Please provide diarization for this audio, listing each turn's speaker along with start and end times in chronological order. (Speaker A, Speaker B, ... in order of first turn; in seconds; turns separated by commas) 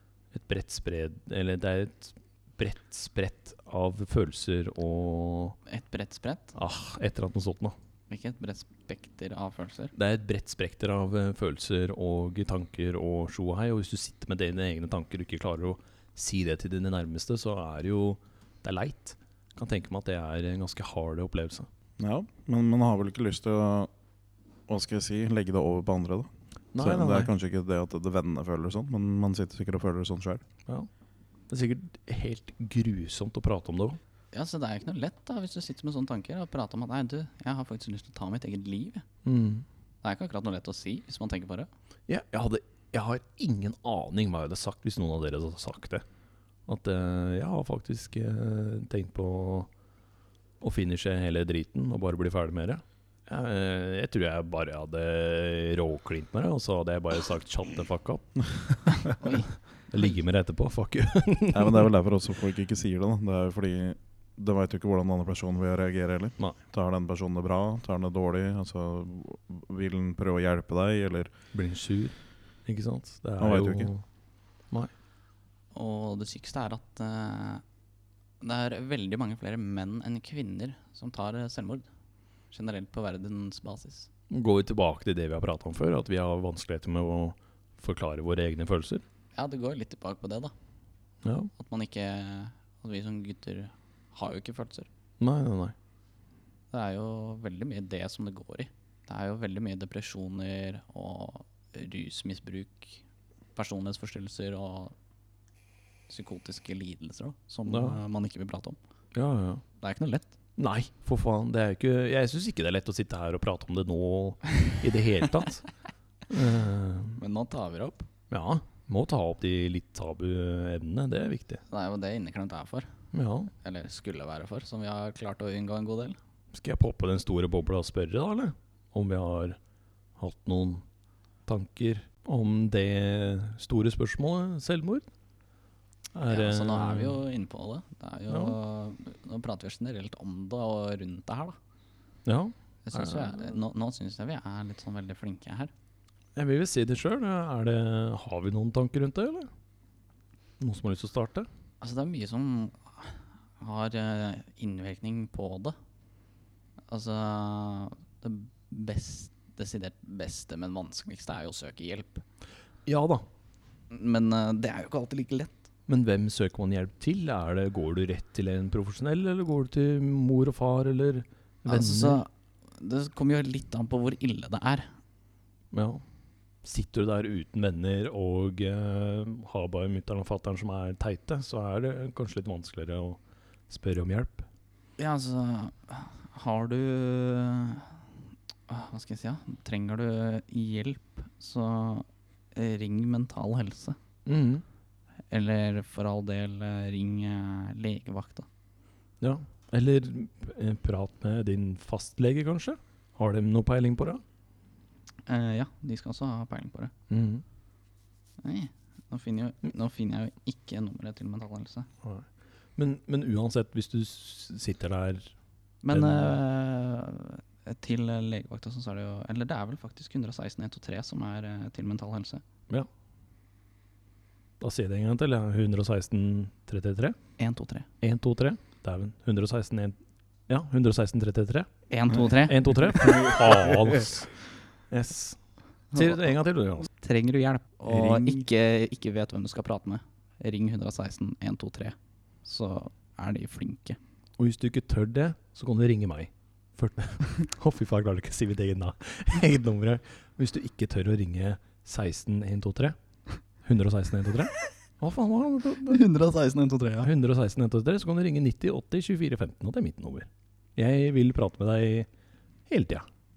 Speaker A: 0.3-5.6, Speaker B: 5.7-6.5, Speaker A: 6.5-7.8, Speaker B: 8.1-9.9, Speaker A: 9.9-21.7, Speaker C: 22.0-23.9, Speaker C: 24.7-30.4, Speaker A: 26.7-27.3, Speaker A: 31.5-34.0, Speaker B: 34.3-39.0, Speaker A: 39.2-39.6, Speaker B: 40.0-41.7, Speaker A: 42.1-46.0, Speaker A: 46.6-49.7, Speaker A: 50.6-58.5, Speaker B: 59.2-59.5, Speaker A: 59.9-61.9, Speaker C: 61.5-71.3, Speaker A: 71.5-74.0, Speaker C: 73.4-73.9, Speaker B: 75.7-77.6, Speaker B: 78.4-81.8, Speaker B: 82.5-84.1, Speaker A: 84.3-89.0, Speaker B: 89.3-90.5, Speaker A: 91.2-91.5, Speaker B: 91.6-94.9, Speaker A: 95.2-95.7, Speaker B: 96.7-103.0, Speaker B: 103.5-104.9, Speaker B: 106.1-108.8, Speaker A: 107.7-108.0, Speaker A: 109.1-109.6, Speaker B: 109.8-110.3, Speaker A: 110.6-115.7, Speaker A: 116.3-117.2, Speaker B: 117.2-118.1, Speaker A: 118.3-121.6, Speaker B: 121.7-122.9, Speaker A: 123.1-123.5, Speaker B: 123.6-126.2, Speaker A: 126.5-129.6, Speaker A: 130.2-130.8, Speaker A: 131.4-135.0, Speaker A: 136.1-137.2, Speaker B: 136.3-141.6, Speaker A: 138.3-138.6, Speaker A: 142.2-143.5, Speaker B: 142.8-145.7, Speaker A: 146.3-149.5, Speaker A: 150.6-151.5, Speaker B: 151.8-155.7, Speaker B: 156.9-162.2, Speaker A: 162.8-163.2, Speaker B: 163.9-165.6, Speaker A: 165.9-172.2, Speaker B: 171.7-174.9, Speaker A: 175.7-176.0, Speaker A: 176.6-183.2, Speaker A: 183.7-184.4, Speaker B: 185.0-187.9, Speaker B: 188.7-194.0, Speaker A: 194.2-194.6, Speaker B: 195.3-198.4, Speaker A: 199.2-204.2, Speaker B: 205.3-206.9, Speaker A: 207.1-207.4, Speaker B: 208.4-211.9, Speaker A: 212.8-215.3, Speaker B: 215.8-222.4, Speaker A: 215.9-216.3, Speaker A: 224.6-227.2, Speaker B: 227.4-227.8, Speaker A: 228.0-230.0, Speaker A: 230.5-231.7, Speaker B: 231.9-233.3, Speaker A: 232.2-234.3, Speaker A: 234.9-235.4, Speaker A: 235.9-236.9, Speaker B: 235.9-236.2, Speaker B: 237.0-244.0, Speaker C: 237.9-238.4, Speaker A: 244.4-252.9, Speaker A: 253.6-256.0, Speaker B: 255.8-257.1, Speaker A: 257.0-262.1, Speaker A: 262.7-263.1